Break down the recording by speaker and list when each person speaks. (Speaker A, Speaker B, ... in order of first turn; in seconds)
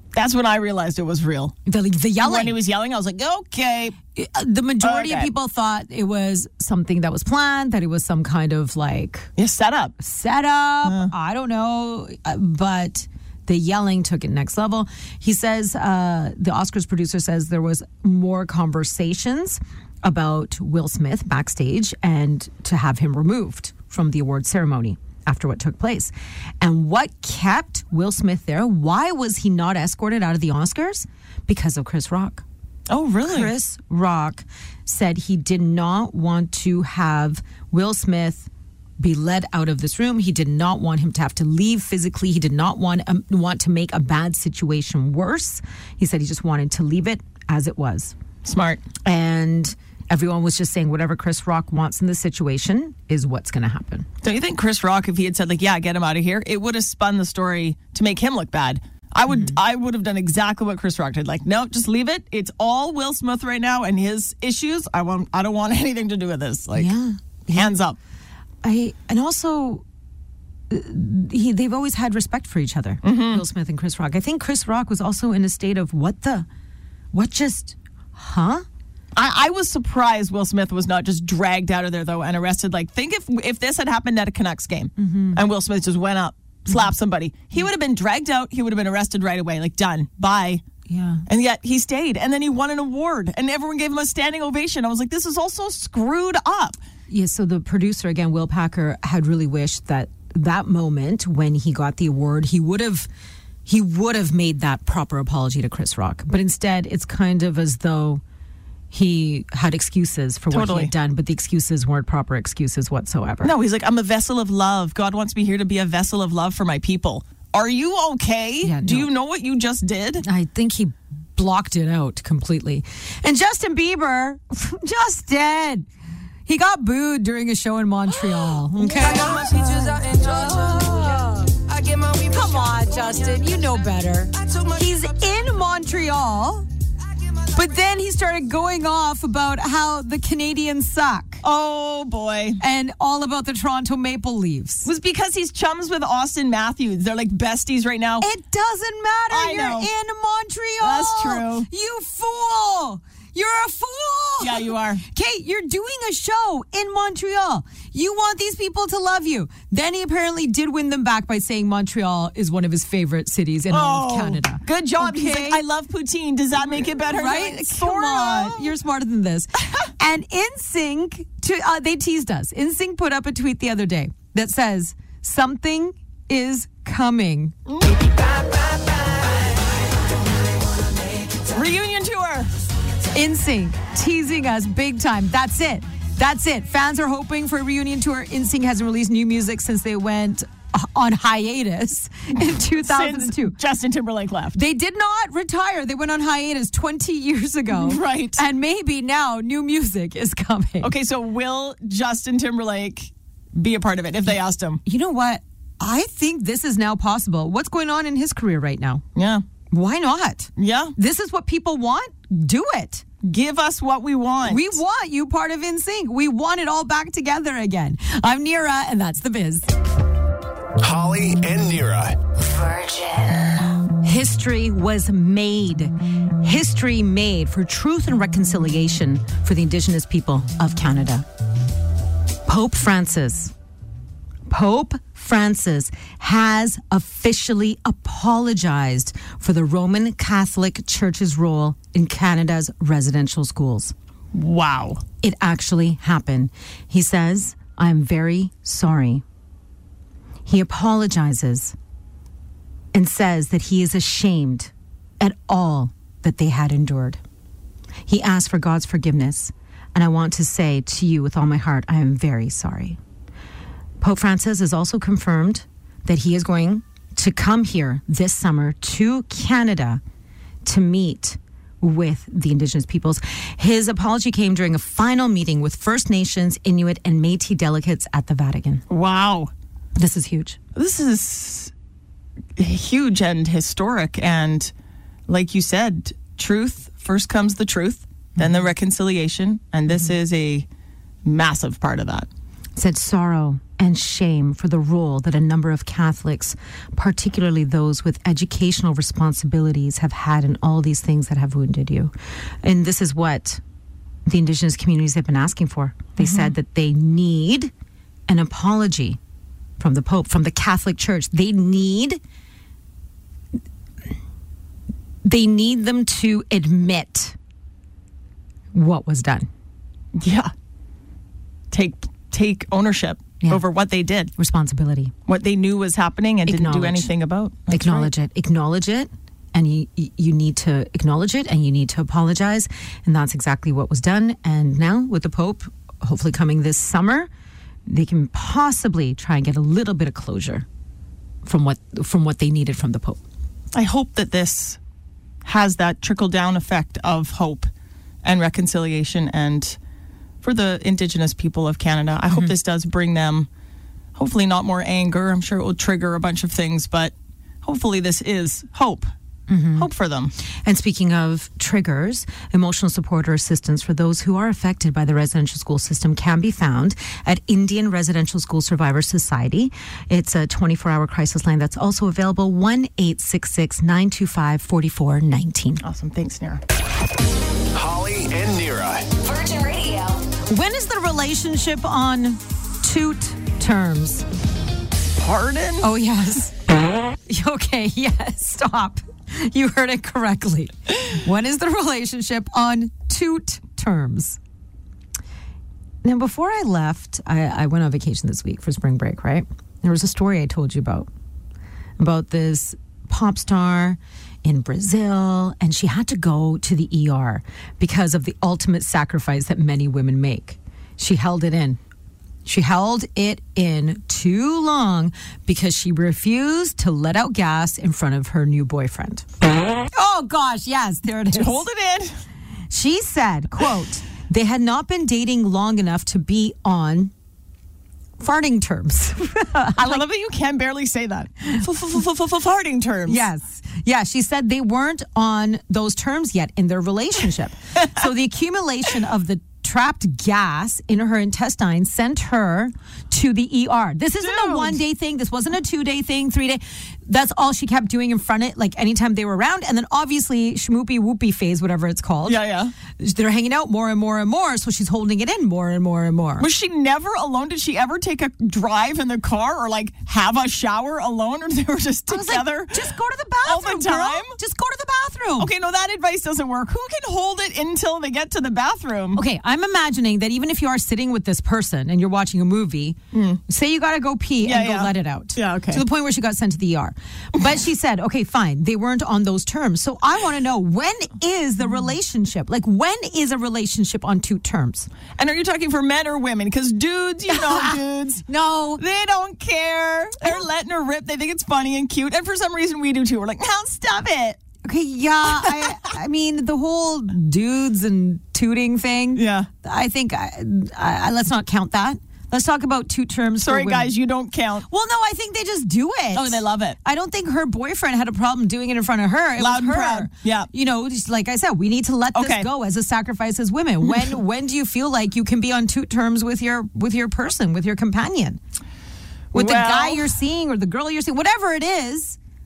Speaker A: 0.1-1.5, 2.2-4.0, 4.8-5.3, 9.4-9.9, 10.8-11.1, 32.9-33.5, 48.4-48.9, 54.2-66.9, 67.5-68.0, 73.0-73.4, 79.2-90.6, 91.3-96.8, 110.5-110.9, 113.4-120.2, 128.8-130.0, 131.7-132.2, 141.4-142.6, 144.8-148.3, 149.3-149.9, 150.8-151.7, 154.4-155.0, 163.7-168.7, 177.7-178.1, 181.5-182.5, 192.8-194.6, 197.7-198.4, 200.8-204.8, 209.2-209.4, 210.6-210.9, 213.2-214.8, 244.3-245.0, 278.9-279.5, 280.7-281.7, 282.6-284.7, 285.3-290.7, 291.2-292.3, 306.2-306.5, 320.1-320.5, 321.7-324.3, 325.3-328.1, 343.7-344.8, 345.4-347.7, 348.2-349.8, 350.4-353.5, 354.1-359.1, 359.8-360.3, 375.8-376.6, 385.2-385.9, 421.3-422.1, 429.8-433.2, 444.2-444.8, 452.2-452.7, 456.4-464.4, 465.4-469.2, 473.1-473.4, 474.4-475.8, 485.2-494.4, 495.2-495.9, 499.1-499.5, 503.4-504.7, 506.1-506.8, 509.4-510.5, 512.1-512.5, 513.8-514.1, 519.3-520.1
Speaker B: 1.6-2.6, 4.1-9.3, 10.0-32.4, 33.2-38.5, 39.0-48.1, 49.0-54.1, 59.3-59.5, 66.7-67.7, 68.6-69.8, 70.7-76.5, 77.1-78.6, 85.0-85.4, 90.9-91.2, 97.1-103.1, 103.7-108.2, 108.9-113.5, 118.6-119.1, 120.2-125.8, 126.5-136.7, 137.5-141.4, 142.6-144.9, 148.2-165.6, 166.9-177.5, 183.1-193.6, 194.5-200.9, 204.8-209.0, 209.7-213.0, 214.4-219.7, 224.0-231.2, 232.4-233.5, 234.5-243.9, 245.2-249.2, 250.4-251.7, 252.9-257.2, 258.1-263.0, 264.0-270.0, 270.6-278.8, 279.9-280.6, 292.8-303.6, 304.2-307.7, 308.3-309.2, 309.8-312.2, 315.2-317.4, 318.7-319.5, 324.4-325.1, 326.4-327.1, 327.7-337.3, 337.9-340.6, 341.4-343.2, 359.5-359.9, 360.6-375.8, 380.5-384.2, 385.8-386.5, 387.2-394.4, 396.0-401.1, 402.0-411.8, 412.4-419.2, 419.9-421.6, 422.7-427.1, 428.2-430.0, 433.1-456.5, 462.1-465.5, 469.1-484.9, 487.4-487.8, 488.3-488.8, 494.6-503.9, 504.7-518.4, 519.3-522.2
Speaker C: 220.8-222.2, 377.7-379.1
Speaker D: 222.4-223.6, 379.1-380.2